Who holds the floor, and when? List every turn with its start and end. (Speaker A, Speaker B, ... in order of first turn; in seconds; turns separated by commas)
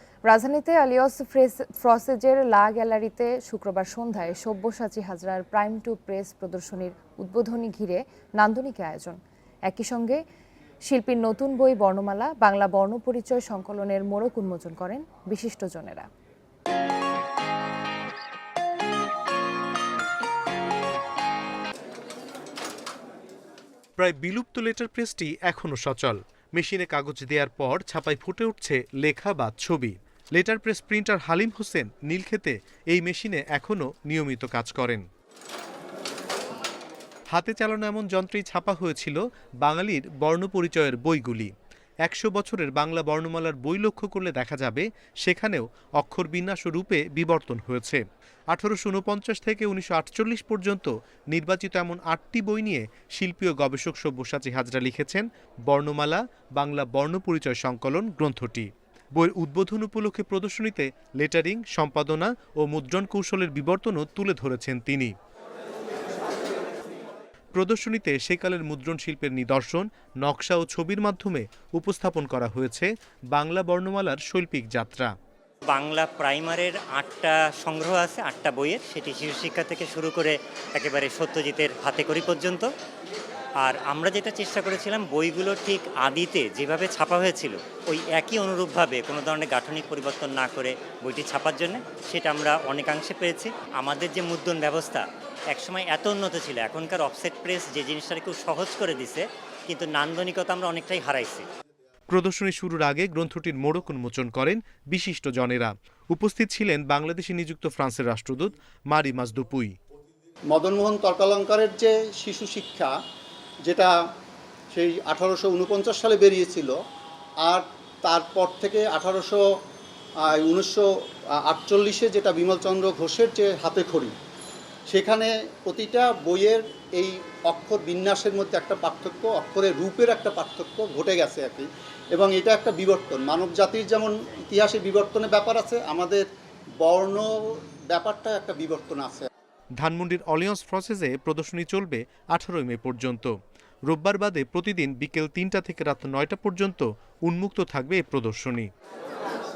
Speaker A: 0.3-10.2, Speaker A: 10.8-16.1, Speaker B: 24.0-35.0, Speaker B: 37.3-41.5, Speaker B: 42.0-65.1, Speaker B: 67.5-75.1, Speaker C: 75.7-82.7, Speaker C: 83.6-101.5, Speaker B: 102.1-109.7, Speaker D: 110.5-112.9, Speaker D: 113.6-113.9, Speaker D: 114.7-116.8, Speaker D: 117.4-119.4, Speaker D: 120.2-120.9, Speaker D: 121.4-124.2, Speaker D: 124.9-136.2, Speaker D: 136.8-137.3, Speaker D: 137.9-139.3, Speaker B: 139.8-143.3, Speaker B: 143.9-148.7